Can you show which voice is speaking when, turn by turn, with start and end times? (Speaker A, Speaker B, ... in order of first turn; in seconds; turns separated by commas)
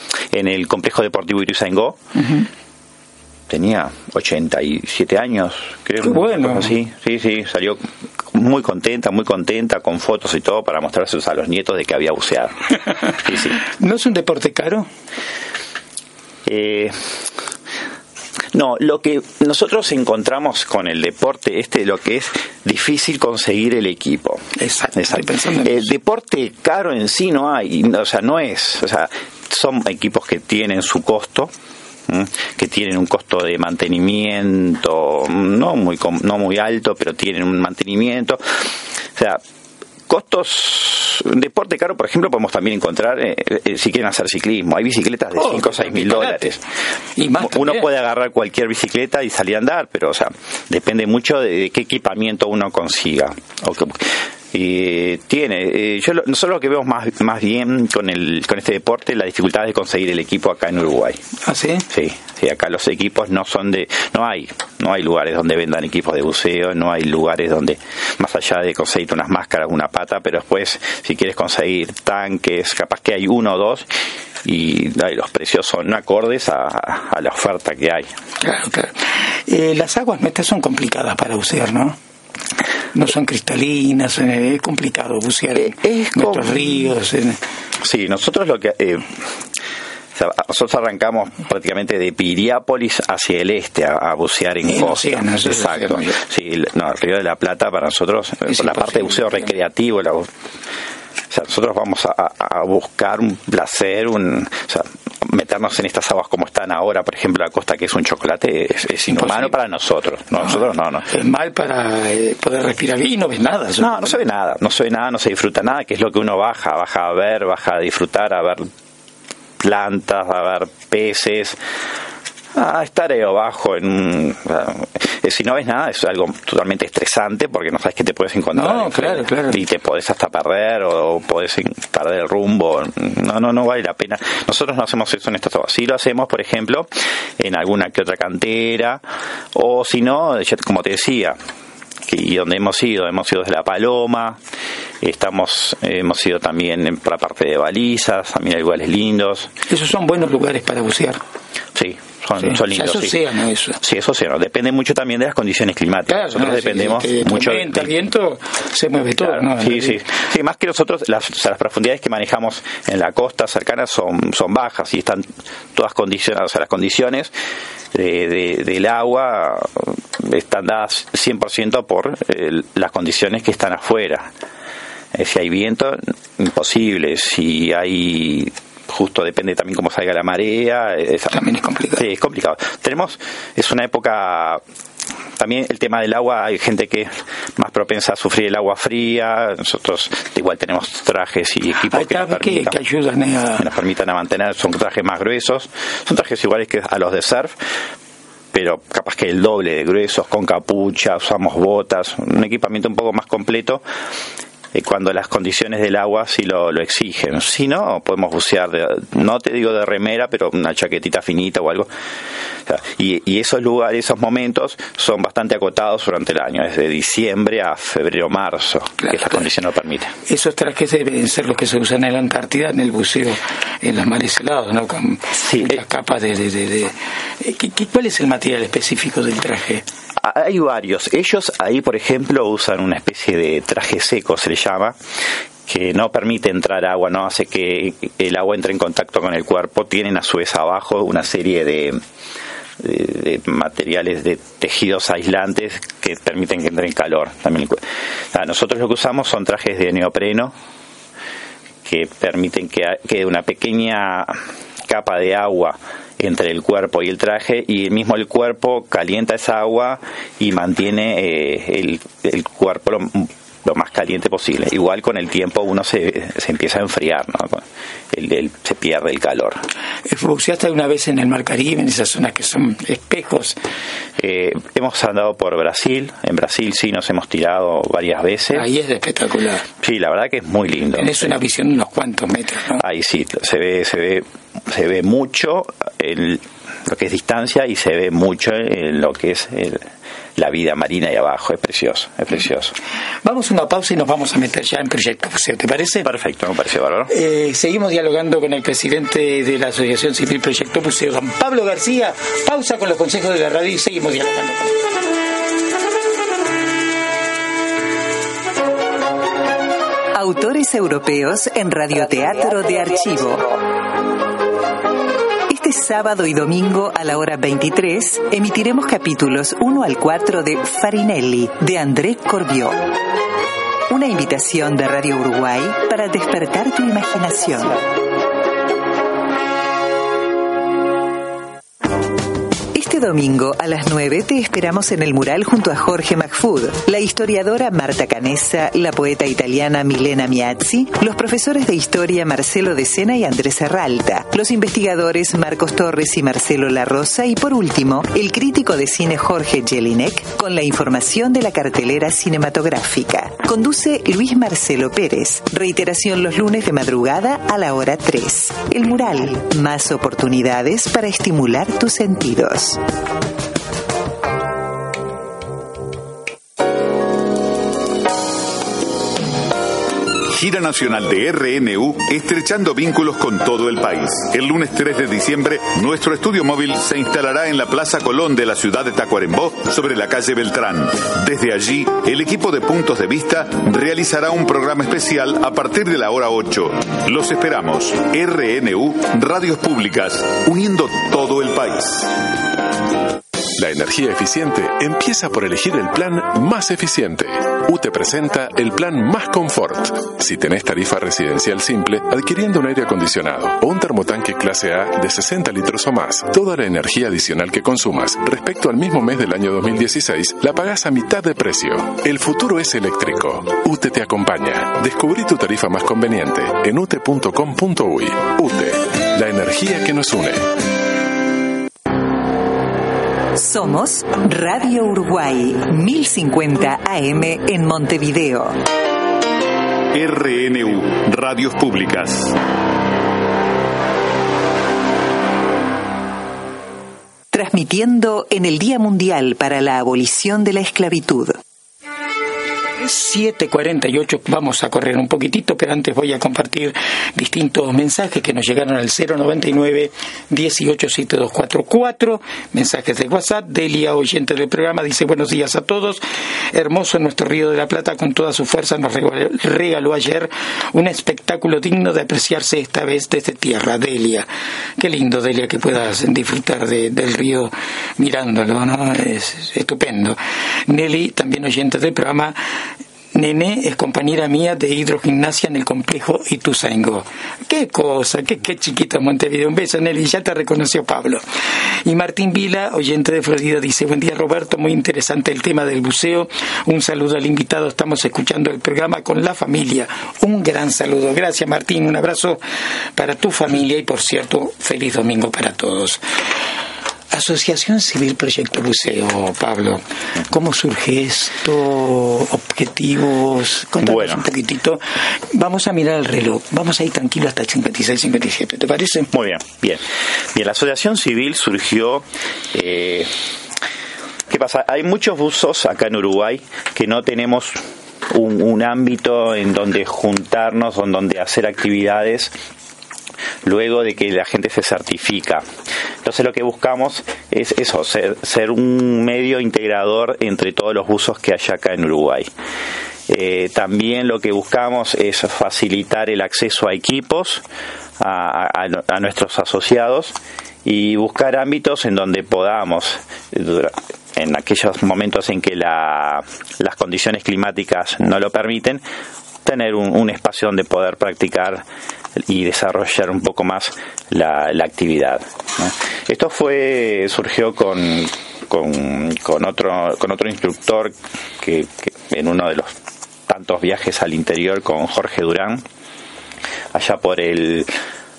Speaker A: 0.3-2.0, Speaker B: 2.2-2.5, Speaker A: 3.5-12.6, Speaker B: 6.0-6.8, Speaker A: 13.2-13.6, Speaker B: 13.6-14.9, Speaker A: 16.5-17.0, Speaker A: 18.5-31.5, Speaker B: 24.6-25.9, Speaker A: 32.1-38.4, Speaker A: 39.2-39.4, Speaker A: 40.1-46.6, Speaker B: 45.4-46.6, Speaker B: 47.2-47.9, Speaker A: 47.4-61.2, Speaker B: 61.4-61.9, Speaker A: 61.9-73.9, Speaker A: 74.4-78.1, Speaker B: 78.4-82.0, Speaker B: 82.9-87.4, Speaker A: 85.6-86.9, Speaker A: 87.8-89.2, Speaker A: 90.2-100.3, Speaker B: 94.7-96.2, Speaker B: 98.5-99.5, Speaker A: 101.3-111.1, Speaker B: 109.0-109.5, Speaker B: 111.1-114.2, Speaker A: 113.8-118.7, Speaker A: 119.6-121.6, Speaker A: 122.5-139.0, Speaker B: 128.6-129.6, Speaker A: 139.5-141.4, Speaker A: 142.1-144.4, Speaker A: 145.0-149.5, Speaker B: 149.7-151.2, Speaker A: 151.8-153.2, Speaker B: 152.4-153.8, Speaker A: 153.8-157.9, Speaker B: 156.1-160.0, Speaker A: 159.2-167.3, Speaker A: 167.9-174.3, Speaker A: 175.1-181.4, Speaker B: 181.3-182.1, Speaker A: 182.0-184.6, Speaker A: 185.4-192.8, Speaker B: 191.9-193.7, Speaker A: 193.6-197.6, Speaker A: 198.5-203.8, Speaker A: 204.8-211.9, Speaker A: 212.7-220.1, Speaker B: 219.0-219.4, Speaker B: 220.3-229.8, Speaker A: 225.4-225.8, Speaker A: 230.2-235.0, Speaker A: 235.7-242.0, Speaker A: 242.8-247.8, Speaker A: 248.3-250.5, Speaker A: 251.8-269.6, Speaker B: 270.1-273.6, Speaker A: 274.2-278.7, Speaker B: 278.5-279.7, Speaker A: 279.8-281.3, Speaker B: 280.9-282.8, Speaker A: 282.8-289.8, Speaker A: 290.4-292.8, Speaker B: 293.2-296.1, Speaker A: 296.0-297.1, Speaker B: 297.1-304.8, Speaker C: 310.1-313.6, Speaker C: 315.5-323.0, Speaker C: 323.9-327.9, Speaker C: 332.7-362.8, Speaker D: 370.3-392.2, Speaker E: 393.6-420.5, Speaker C: 423.3-428.6, Speaker D: 429.9-432.4, Speaker C: 437.3-441.4, Speaker B: 442.8-456.0, Speaker B: 456.5-464.3, Speaker B: 464.8-472.4, Speaker B: 473.1-481.2, Speaker B: 481.9-492.4, Speaker B: 493.0-496.0, Speaker B: 497.1-509.1, Speaker A: 503.8-504.2, Speaker A: 509.1-513.1, Speaker A: 514.3-522.3, Speaker A: 523.4-525.5, Speaker A: 526.0-532.3, Speaker A: 533.1-537.4, Speaker A: 538.0-548.8, Speaker A: 549.4-551.6, Speaker A: 552.3-562.8, Speaker A: 563.3-565.6, Speaker A: 566.7-567.7